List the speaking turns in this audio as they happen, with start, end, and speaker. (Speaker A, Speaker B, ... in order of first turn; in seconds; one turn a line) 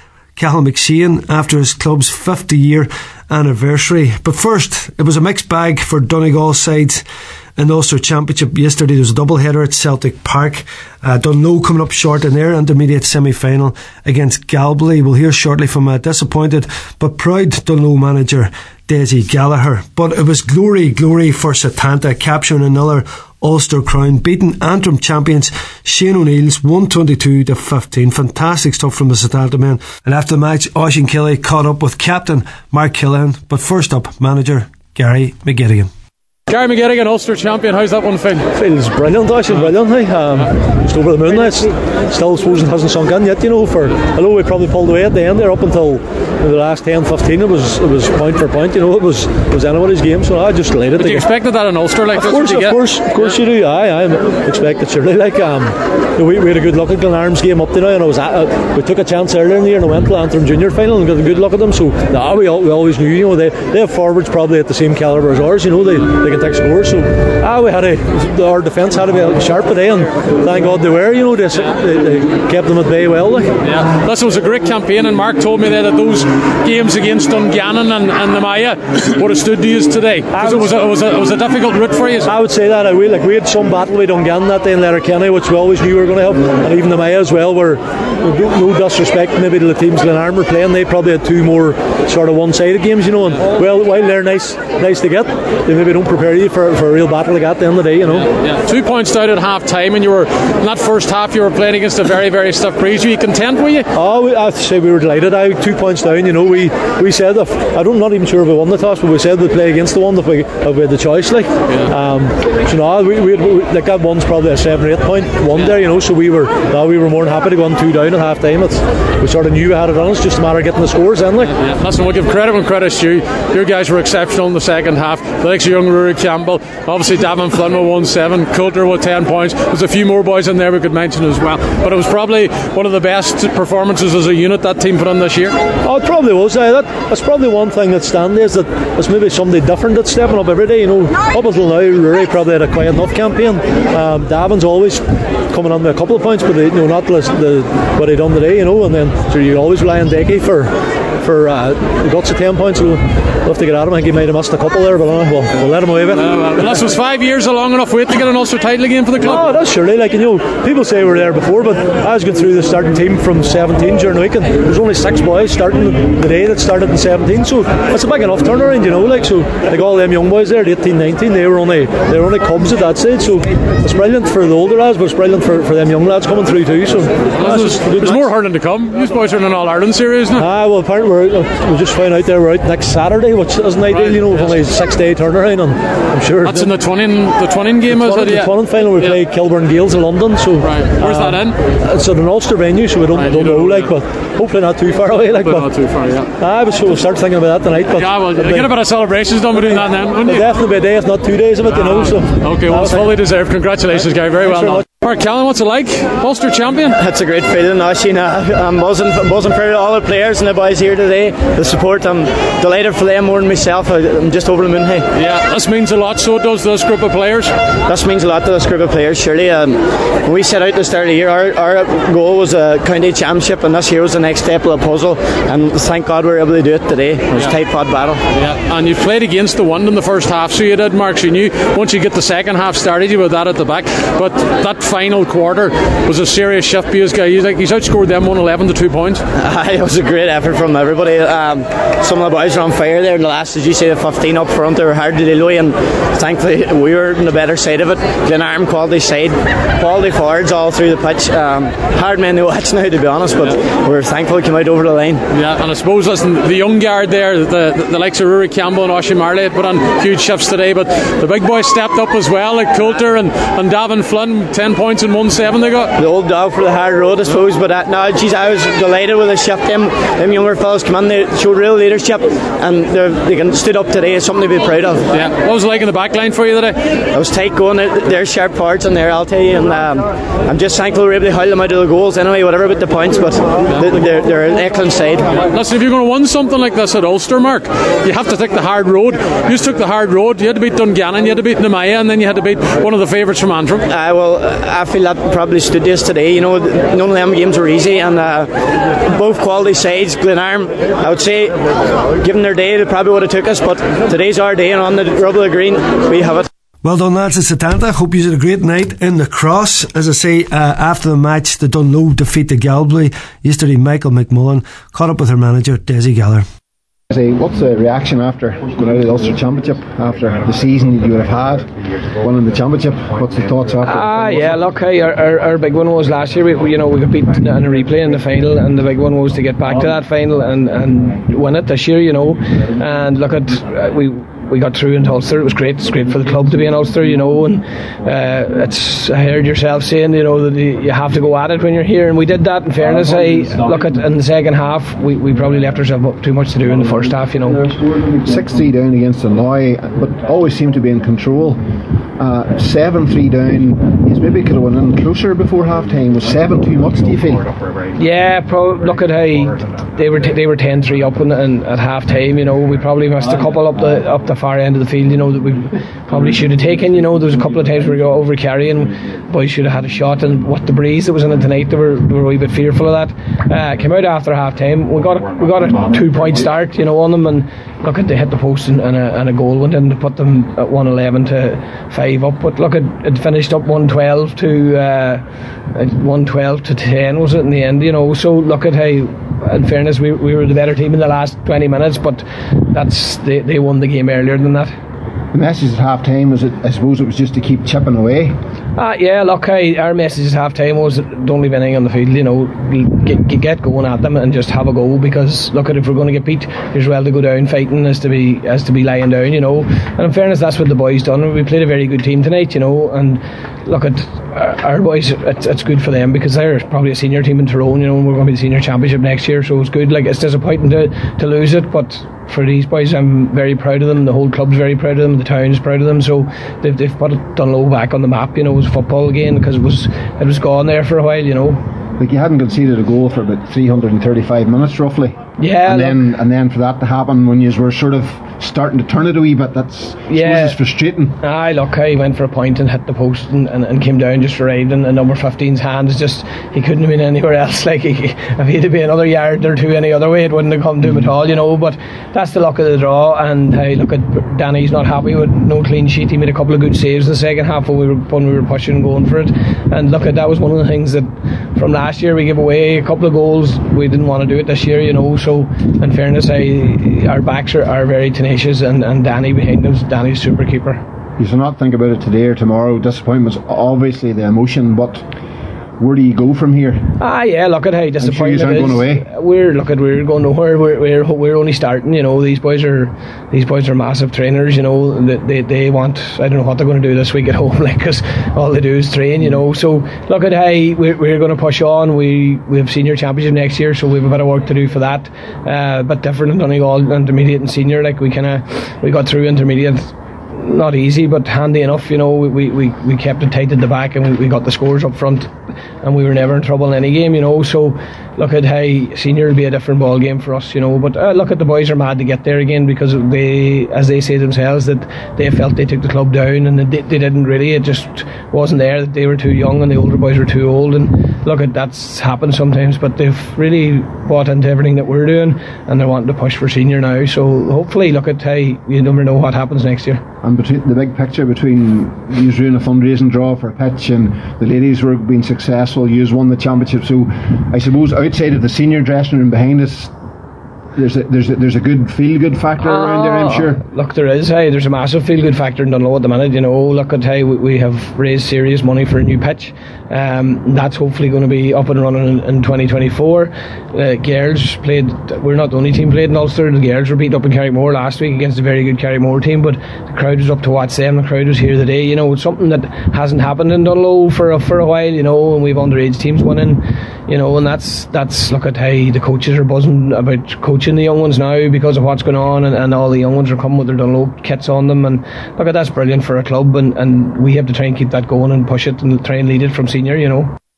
Speaker A: 0.4-7.0
Speaker A: 7.6-35.9
Speaker B: 36.5-38.5
Speaker C: 38.5-51.3
Speaker B: 51.0-52.8
Speaker C: 52.1-73.5
Speaker B: 73.6-82.3
Speaker C: 80.3-80.9
Speaker C: 82.2-98.3
Speaker B: 98.3-103.9
Speaker C: 103.9-121.5
Speaker B: 121.5-135.5
Speaker C: 135.8-156.9
Speaker B: 156.2-159.4
Speaker C: 159.2-178.3
Speaker B: 177.4-180.5
Speaker C: 180.4-186.8
Speaker B: 183.9-184.6
Speaker B: 186.4-189.2
Speaker C: 187.9-195.7
Speaker B: 190.6-191.6
Speaker B: 193.2-193.9
Speaker B: 195.4-196.3
Speaker C: 196.4-198.7
Speaker B: 198.0-200.4
Speaker C: 199.5-203.2
Speaker B: 201.7-207.0
Speaker C: 204.0-204.8
Speaker D: 206.9-215.1
Speaker B: 215.2-217.5
Speaker D: 217.9-228.2
Speaker B: 228.3-239.2
Speaker D: 239.4-255.2
Speaker B: 255.3-265.9
Speaker D: 266.0-275.1
Speaker B: 275.1-276.9
Speaker D: 277.1-285.4
Speaker B: 285.5-293.9
Speaker D: 293.9-306.5
Speaker A: 306.8-316.4
Speaker E: 317.1-324.1
Speaker F: 323.8-347.8
Speaker E: 348.1-357.5
Speaker F: 358.0-394.7
Speaker E: 395.3-398.4
Speaker F: 398.8-431.6
Speaker E: 432.0-441.2
Speaker F: 435.4-436.0
Speaker F: 440.1-440.6
Speaker F: 441.2-470.8
Speaker E: 471.2-475.1
Speaker E: 475.8-476.9
Speaker F: 477.0-530.0
Speaker E: 478.0-479.1
Speaker E: 530.2-539.9
Speaker E: 540.8-543.6
Speaker F: 542.6-580.4